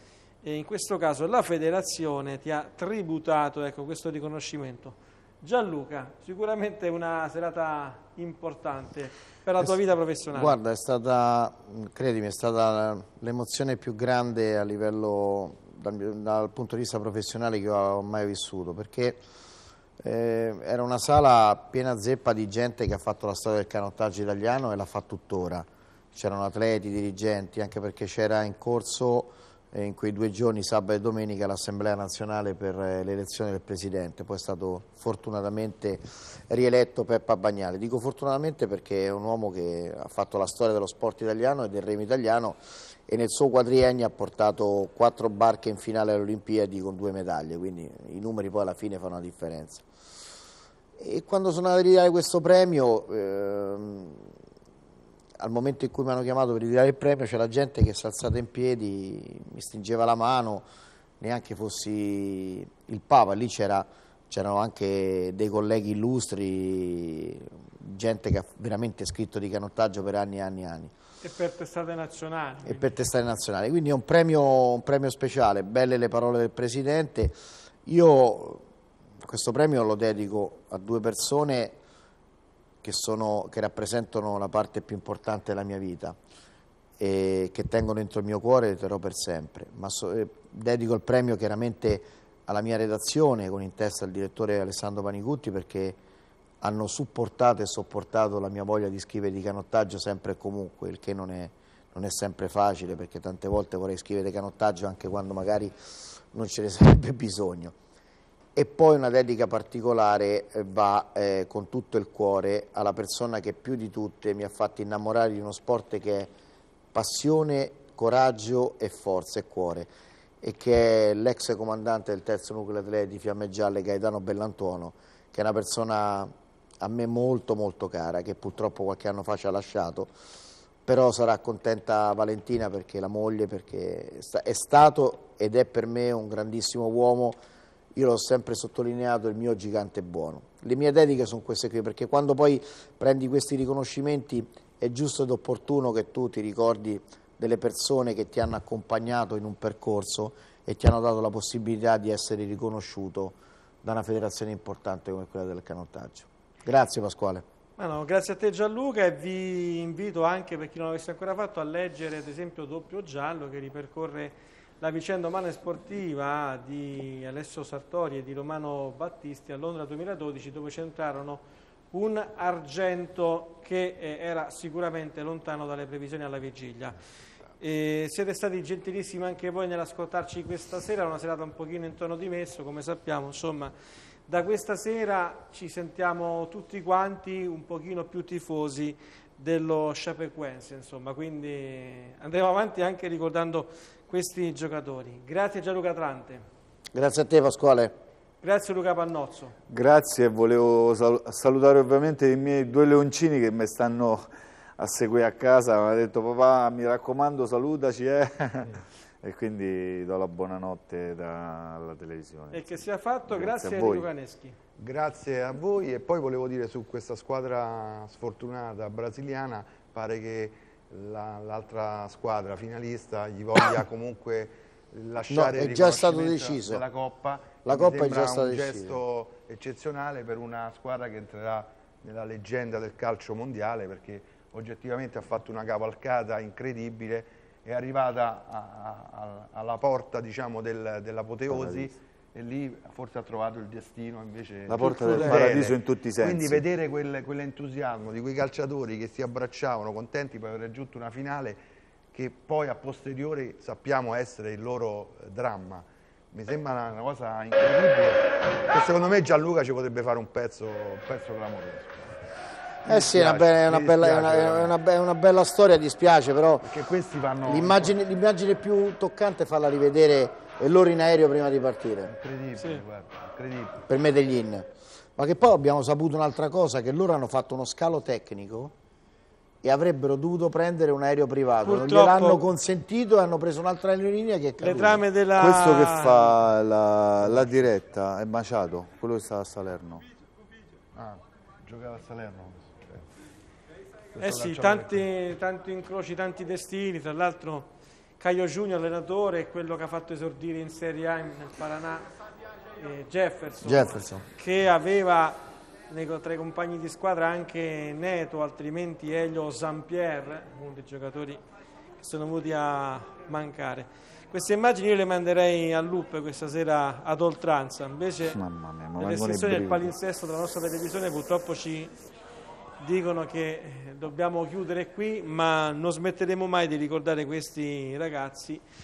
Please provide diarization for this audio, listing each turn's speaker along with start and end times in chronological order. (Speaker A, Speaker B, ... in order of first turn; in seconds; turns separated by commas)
Speaker A: 0.4-10.6, Speaker B: 10.3-19.2, Speaker B: 20.0-49.9, Speaker B: 51.0-54.4, Speaker B: 55.4-60.7, Speaker B: 61.2-70.9, Speaker A: 71.2-72.9, Speaker B: 72.6-77.3, Speaker B: 77.8-78.6, Speaker B: 79.2-81.8, Speaker B: 82.8-86.2, Speaker B: 87.0-96.0, Speaker B: 96.6-105.7, Speaker B: 106.3-107.8, Speaker B: 108.5-116.3, Speaker B: 116.9-119.9, Speaker B: 120.4-130.1, Speaker B: 130.8-137.4, Speaker B: 137.9-157.4, Speaker A: 157.8-176.9, Speaker A: 177.6-183.7, Speaker A: 184.3-196.4, Speaker B: 196.9-197.9, Speaker A: 198.4-199.5, Speaker C: 199.7-214.1, Speaker A: 212.5-214.5, Speaker D: 214.8-251.6, Speaker B: 225.3-226.8, Speaker B: 227.6-229.0, Speaker C: 241.5-241.9, Speaker C: 244.7-246.7, Speaker D: 252.1-262.2, Speaker D: 262.8-264.7, Speaker B: 262.8-266.7, Speaker D: 266.6-267.9, Speaker B: 267.4-272.1, Speaker D: 272.1-273.9, Speaker B: 273.9-278.7, Speaker B: 279.6-285.0, Speaker A: 281.6-282.4, Speaker A: 284.6-286.3, Speaker C: 285.4-290.0, Speaker D: 287.2-287.7, Speaker D: 290.9-293.1, Speaker D: 294.1-295.1, Speaker A: 294.2-297.7, Speaker A: 298.2-302.1, Speaker A: 302.7-305.4, Speaker B: 303.6-304.2, Speaker A: 305.9-311.4, Speaker A: 312.0-318.4, Speaker C: 318.2-319.9, Speaker A: 319.0-321.9, Speaker A: 322.8-328.6